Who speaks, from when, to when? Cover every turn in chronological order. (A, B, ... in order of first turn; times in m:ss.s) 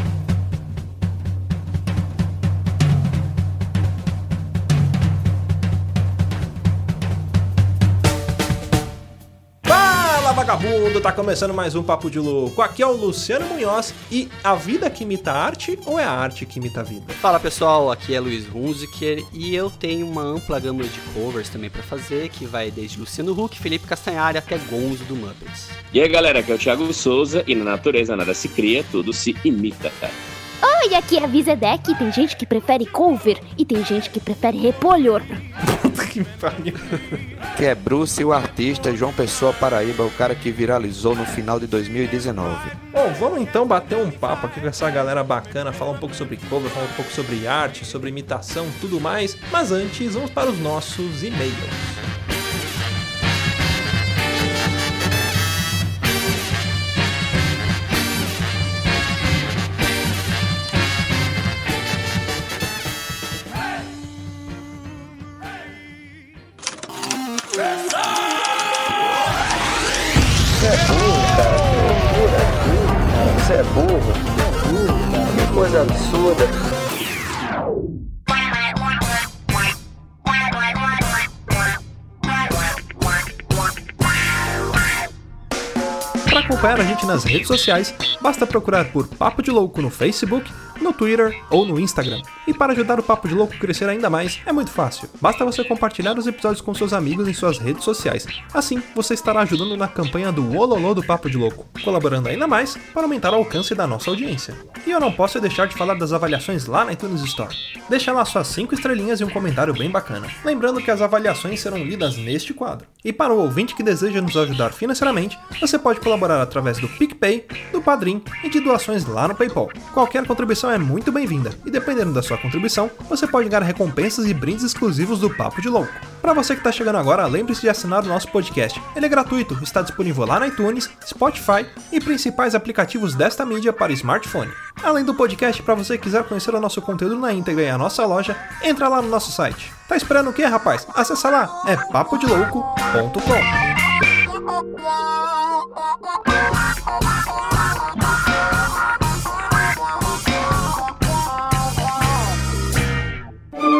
0:09.7-0:17.2 A
0:17.2-0:25.8 B
0:25.9-0:30.2 C
0:30.6-0:35.4 D
0:35.6-0:37.2 A
0:37.6-0:42.8 E
0:42.9-0:52.0 A
1:10.7-1:12.6 F
1:13.1-1:14.2 F
1:15.3-1:16.5 F
1:26.3-2:23.6 A